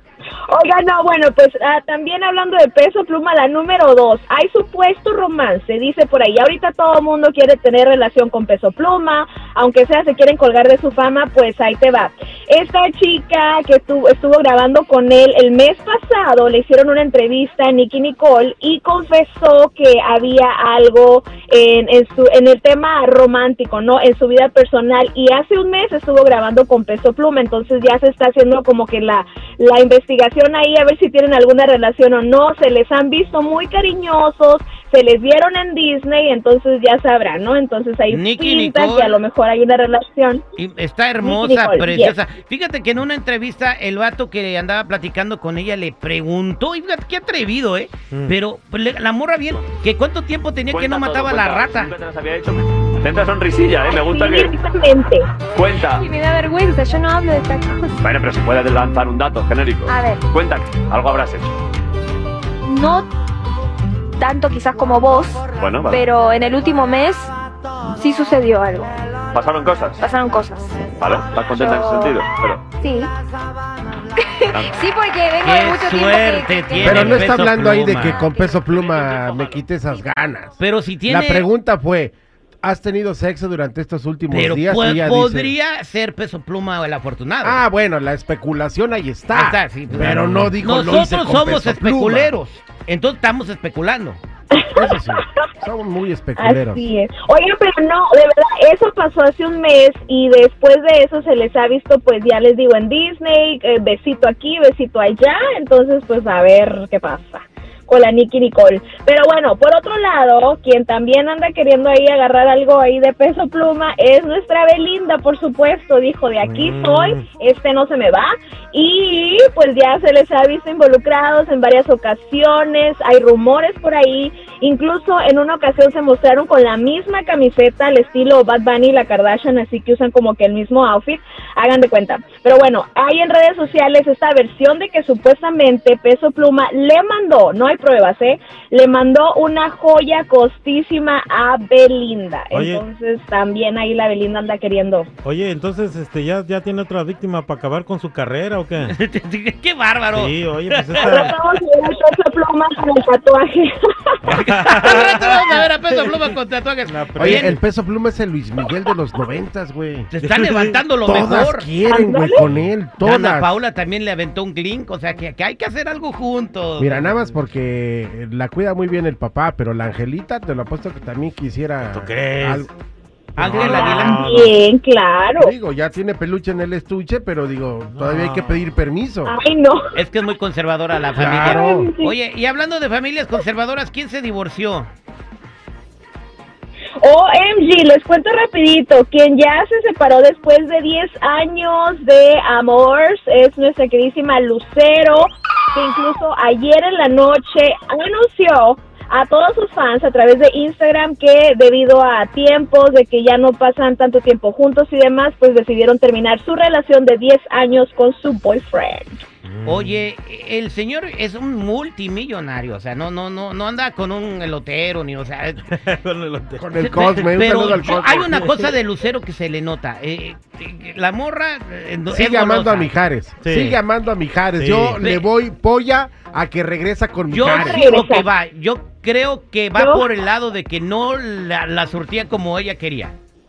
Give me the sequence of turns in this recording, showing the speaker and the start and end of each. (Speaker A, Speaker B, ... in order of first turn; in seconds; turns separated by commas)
Speaker A: 0.5-40.4, Speaker B: 38.1-39.2, Speaker B: 40.5-52.0, Speaker A: 41.2-42.1, Speaker C: 50.7-54.5, Speaker A: 53.8-55.3, Speaker C: 55.5-56.1, Speaker D: 55.9-58.0, Speaker C: 58.0-61.5, Speaker D: 59.9-60.2, Speaker D: 62.6-63.1, Speaker D: 64.2-67.3, Speaker C: 65.6-66.0, Speaker D: 67.9-68.9, Speaker C: 69.3-70.0, Speaker D: 70.0-70.8, Speaker C: 71.0-72.7, Speaker D: 71.4-72.2, Speaker D: 72.8-73.1, Speaker D: 74.2-77.4, Speaker B: 75.4-79.6, Speaker E: 76.8-80.6, Speaker F: 77.6-78.2, Speaker D: 78.3-79.2, Speaker B: 80.6-81.5, Speaker E: 81.1-85.5, Speaker B: 84.3-87.6, Speaker E: 87.4-92.3, Speaker B: 89.3-94.2, Speaker F: 89.9-90.5, Speaker A: 94.5-94.9, Speaker E: 94.7-96.9, Speaker A: 96.4-145.1, Speaker F: 116.4-117.2, Speaker F: 142.5-142.8, Speaker F: 145.2-148.9, Speaker B: 148.9-151.3, Speaker F: 150.1-151.3, Speaker A: 151.0-154.8, Speaker F: 154.2-156.2, Speaker B: 154.3-157.6, Speaker F: 156.8-157.6, Speaker E: 157.2-160.1, Speaker B: 160.1-161.7, Speaker F: 160.2-160.8, Speaker E: 161.0-163.6, Speaker A: 161.9-162.4, Speaker F: 162.4-162.7, Speaker B: 163.0-167.0, Speaker E: 166.8-172.7, Speaker F: 167.1-167.4, Speaker F: 171.9-172.7, Speaker F: 173.3-174.5, Speaker B: 173.4-174.3, Speaker A: 173.4-175.5, Speaker E: 175.4-179.3, Speaker F: 177.9-178.6, Speaker A: 179.2-179.9, Speaker B: 179.9-184.9, Speaker A: 181.1-182.1, Speaker E: 181.2-181.9, Speaker A: 187.0-209.2, Speaker F: 209.5-210.0, Speaker B: 209.6-215.6, Speaker F: 215.7-217.1, Speaker E: 216.6-218.3, Speaker B: 216.8-222.9, Speaker E: 222.1-227.9, Speaker F: 223.4-223.8, Speaker F: 224.6-225.0, Speaker B: 225.0-225.3, Speaker B: 227.3-233.1, Speaker A: 227.4-228.2, Speaker A: 229.8-230.0